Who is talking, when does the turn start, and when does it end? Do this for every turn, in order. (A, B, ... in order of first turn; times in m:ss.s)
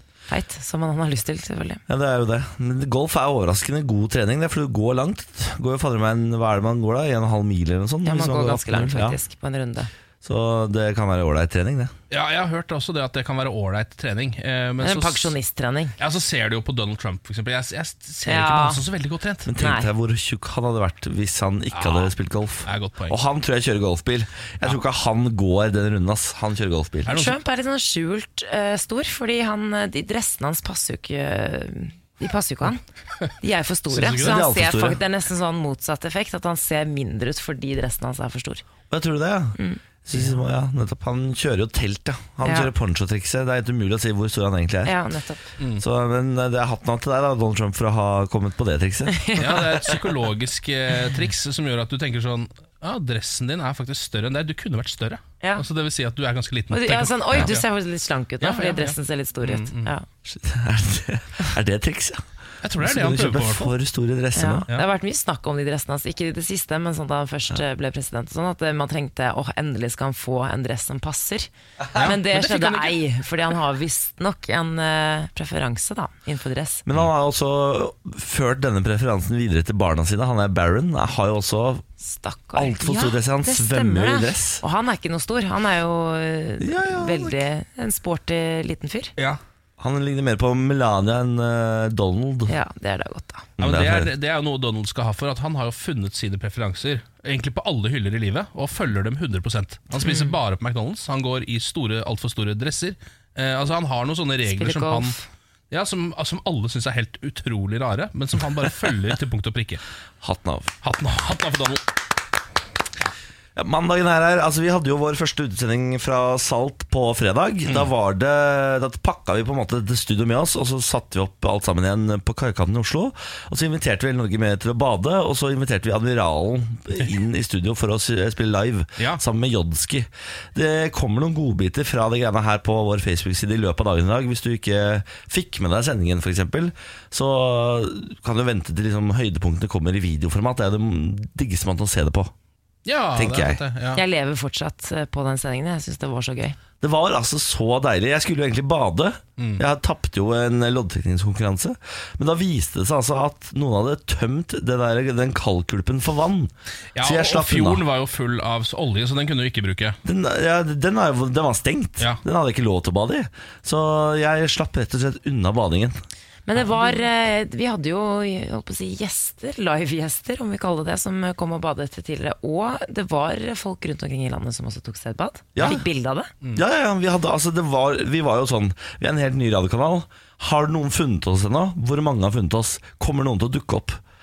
0:00.3-0:01.8 A
0:01.9-0:09.2 B
0:08.0-0:09.9 A
0:10.2-0:11.9 B
0:12.1-0:15.3 C
0:14.8-0:15.9 A
0:16.0-0:19.5 C
0:18.2-0:18.8 A
0:19.4-0:27.2 B
0:19.6-0:19.9 A
0:21.7-0:22.1 C
0:22.6-0:23.2 C
0:27.1-0:27.4 C
0:27.1-0:32.8 A
0:33.4-0:38.6 A
0:33.9-0:34.4 C
0:34.0-0:35.0 B
0:38.9-0:44.9 B
0:42.4-0:42.7 A
0:44.8-0:45.4 A
0:45.6-0:45.8 C
0:45.8-0:49.7 B
0:49.1-0:49.6 A
0:49.4-0:57.6 C
0:56.7-1:00.0 A
0:58.4-0:59.9 C
1:00.2-1:02.2 B
1:02.6-1:03.7 C
1:02.8-1:04.7 B
1:04.3-1:16.8 A
1:11.9-1:13.0 C
1:16.8-1:21.8 B
1:22.0-1:29.1 A
1:22.6-1:24.6 B
1:26.6-1:27.4 B
1:29.8-1:32.5 B
1:32.5-1:33.5 A
1:33.6-1:34.1 B
1:33.6-1:45.2 C
1:40.0-1:40.3 A
1:44.5-1:45.2 A
1:45.7-1:49.8 C
1:50.2-1:50.7 B
1:50.8-1:51.9 C
1:53.6-2:22.3 B
2:22.8-2:24.0 C
2:23.1-2:23.6 B
2:23.9-2:26.6 A
2:26.8-2:37.8 B
2:36.9-2:40.0 C
2:40.0-2:46.0 B
2:46.5-2:56.3 A
2:46.6-2:46.9 C
2:55.5-2:55.8 B
2:56.5-3:04.0 B